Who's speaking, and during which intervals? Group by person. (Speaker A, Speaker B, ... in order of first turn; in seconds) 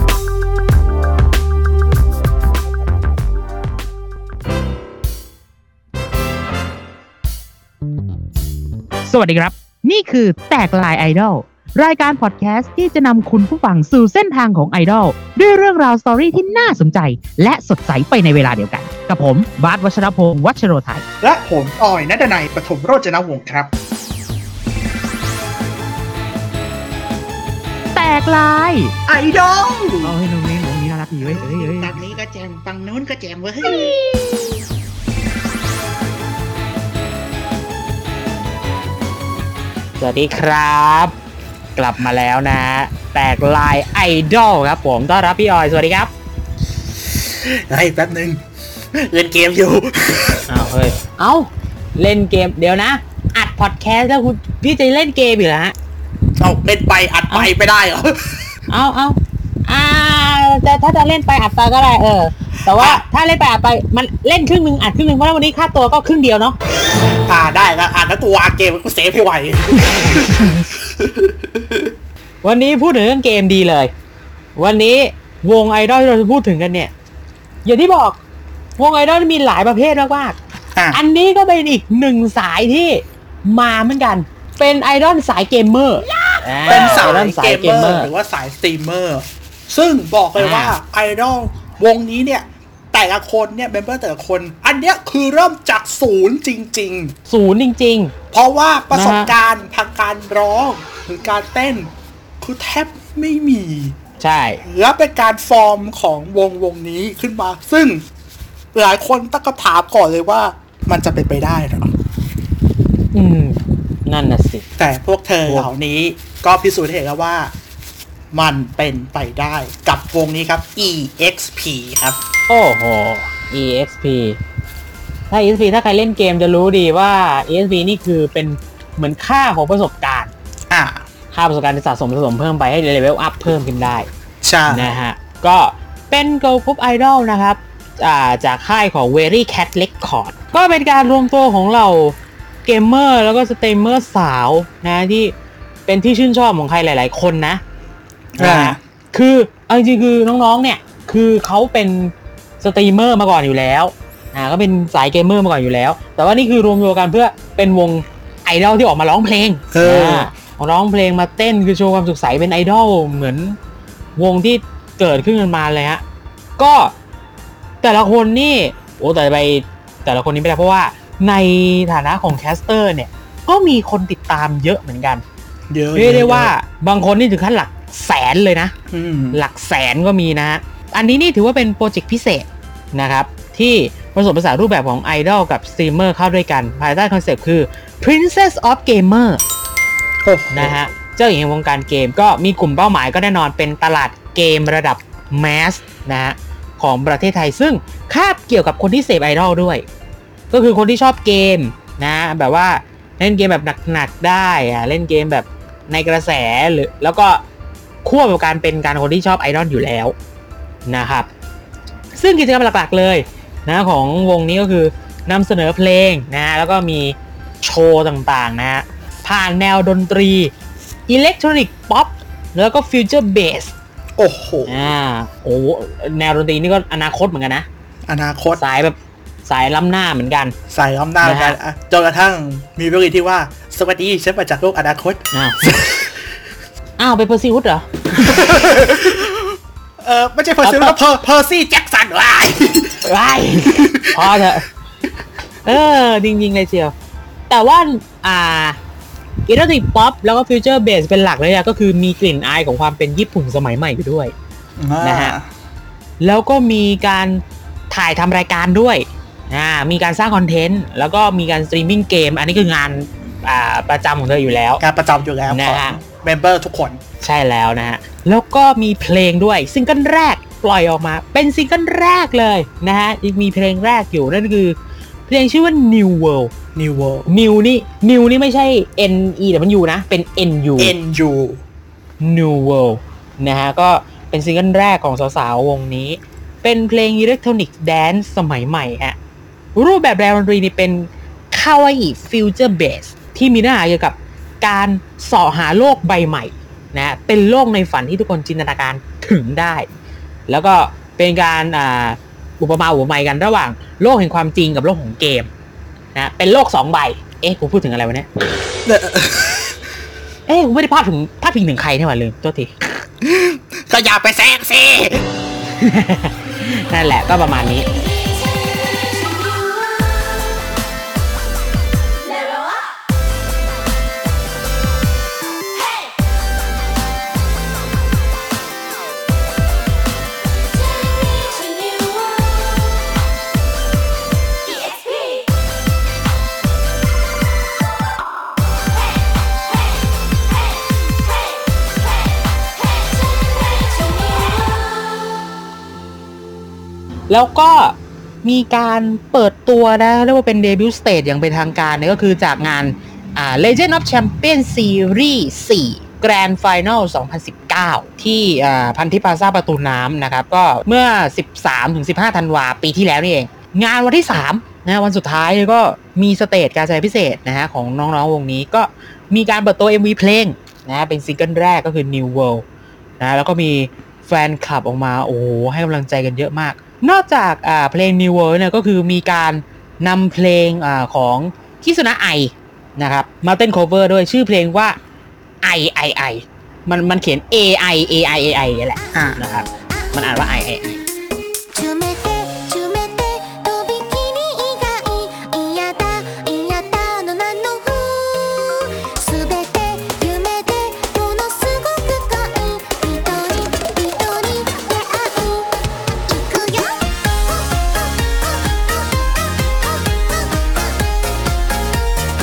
Speaker A: 9.0-21.0, 27.9-28.9, 30.0-32.0
Speaker B: 21.2-23.7, 29.1-30.2, 31.2-34.0, 47.3-48.4, 48.9-50.5, 56.4-58.5, 62.7-63.0, 67.3-71.9, 80.7-81.0, 86.7-97.2, 98.3-104.0, 104.6-108.0, 108.7-111.9, 114.8-117.5, 118.3-122.2, 130.7-131.0, 134.4-134.9, 148.3-148.8, 159.7-160.3, 175.7-176.5, 178.9-179.4, 190.2-190.8, 224.2-224.7, 228.1-228.6, 230.7-235.9, 238.2-243.0, 243.8-244.2, 254.8-255.4, 264.8-267.0, 276.7-277.3, 280.8-281.6, 308.9-309.8, 313.2-315.3, 389.1-389.4
Speaker C: 40.0-41.1, 41.8-46.1, 50.5-55.7, 58.7-66.5, 72.4-73.9, 74.5-76.9, 77.6-78.2, 78.8-80.3, 80.9-88.1, 90.3-90.8, 97.3-98.1, 98.9-99.3, 104.2-104.6, 113.1-114.6, 122.5-124.4, 125.3-130.3, 131.3-134.1, 134.7-145.3, 145.9-147.6, 148.4-163.6, 164.2-166.0, 166.6-166.9, 167.8-175.2, 175.9-178.7, 179.3-189.4, 190.5-199.8, 200.5-207.4, 208.0-210.1, 210.9-211.3, 212.2-220.5, 221.1-223.7, 224.7-227.7, 228.6-230.5, 231.2-231.6, 235.3-235.9, 237.0-238.4, 240.6-240.9, 243.0-244.7, 245.6-246.9, 247.5-248.8, 249.4-254.3, 255.0-255.3, 256.2-264.8, 265.5-266.0, 267.2-274.8, 275.3-276.5, 277.3-280.9, 282.2-289.1, 289.8-299.9, 300.5-305.5, 306.1-308.3, 310.5-312.7, 315.8-317.9, 347.3-372.6, 373.2-385.0, 385.6-391.0
Speaker D: 322.3-322.7, 331.1-332.4, 334.8-335.2, 344.1-344.5, 391.7-405.7, 406.3-408.6, 409.9-410.9